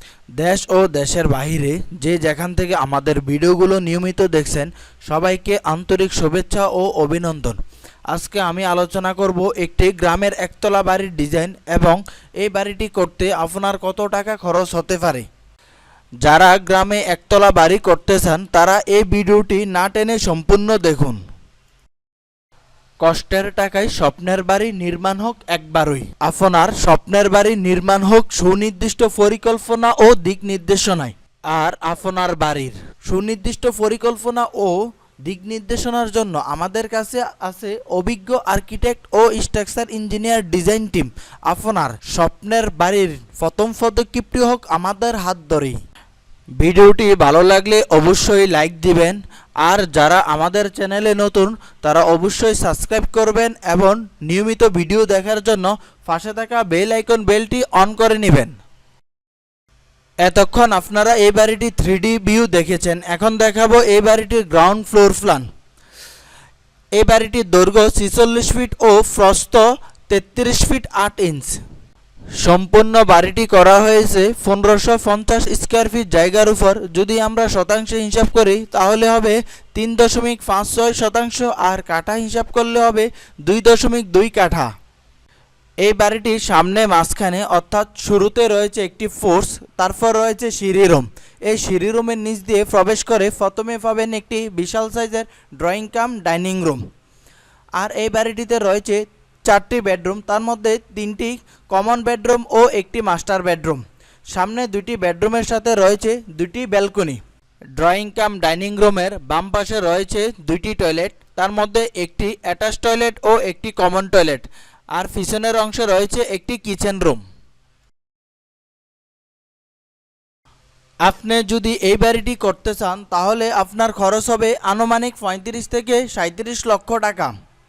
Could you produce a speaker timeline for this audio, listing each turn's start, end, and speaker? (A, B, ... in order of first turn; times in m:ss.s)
0:00.4-0:07.6 A
0:08.1-0:15.2 A
0:16.2-0:21.2 A
0:23.0-0:45.8 A
0:46.6-0:58.5 A
1:00.2-1:05.4 A
1:07.0-1:11.6 A
1:12.4-1:24.7 A
1:25.8-1:36.8 A
1:37.8-1:47.2 A
1:47.8-1:57.2 A
2:01.0-2:07.3 A